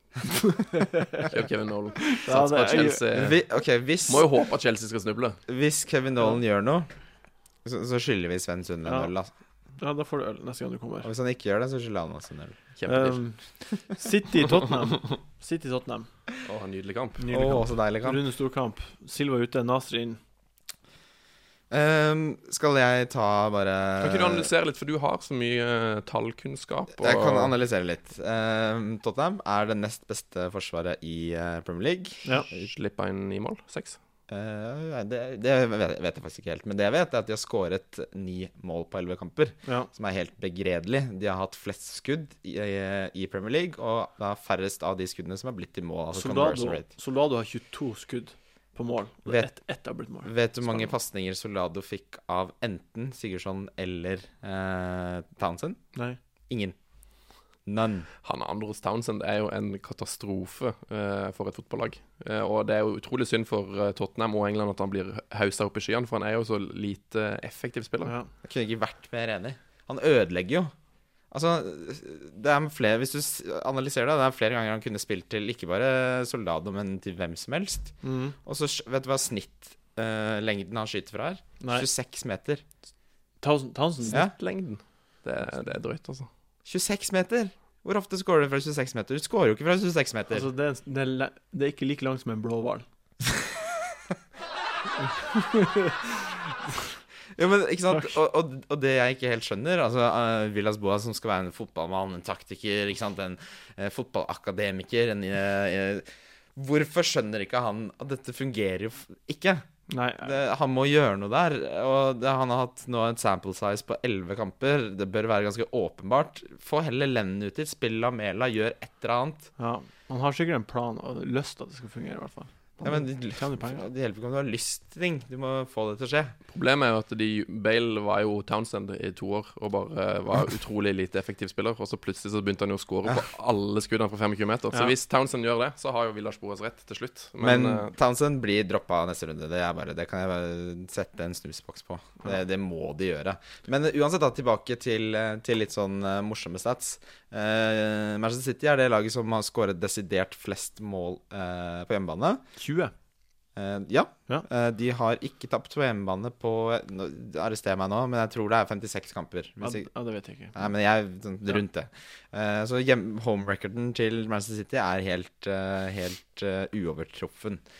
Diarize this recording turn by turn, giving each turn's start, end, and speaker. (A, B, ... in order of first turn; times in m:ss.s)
0:00.6-0:01.3 A
0:01.2-0:03.4 B
0:02.1-0:03.0 A
0:03.1-0:04.3 C
0:04.1-0:05.4 B
0:05.5-0:06.9 C
0:07.6-0:09.3 C
0:08.8-0:09.1 A
0:09.8-0:11.1 A
0:11.0-0:12.6 C
0:12.8-0:13.2 B
0:12.9-0:16.1 A
0:16.4-0:17.2 B
0:17.2-0:20.2 A
0:17.3-0:18.2 C
0:21.7-0:24.5 C
0:24.0-0:27.5 B
0:27.0-0:32.7 C
0:32.5-0:34.0 B
0:34.3-0:46.9 C
0:39.6-0:39.9 A
0:46.1-0:50.9 A
0:50.2-0:55.8 C
0:55.9-0:56.2 A
0:56.5-0:56.8 C
0:57.6-0:58.1 C
0:58.2-1:08.1 B
1:08.4-1:10.7 C
1:11.3-1:22.6 C
1:18.0-1:18.4 A
1:21.6-1:21.9 A
1:23.4-1:24.2 A
1:24.1-1:26.3 B
1:26.6-1:30.5 C
1:30.3-1:32.8 A
1:35.0-1:36.3 A
1:37.4-1:49.6 C
1:49.9-1:50.4 A
1:50.2-1:59.5 C
1:59.6-2:03.9 A
2:02.8-2:06.4 C
2:06.5-2:17.9 B
2:17.4-2:32.4 C
2:32.6-2:32.9 A
2:33.6-2:39.9 C
2:39.6-2:40.7 A
2:40.6-2:47.6 C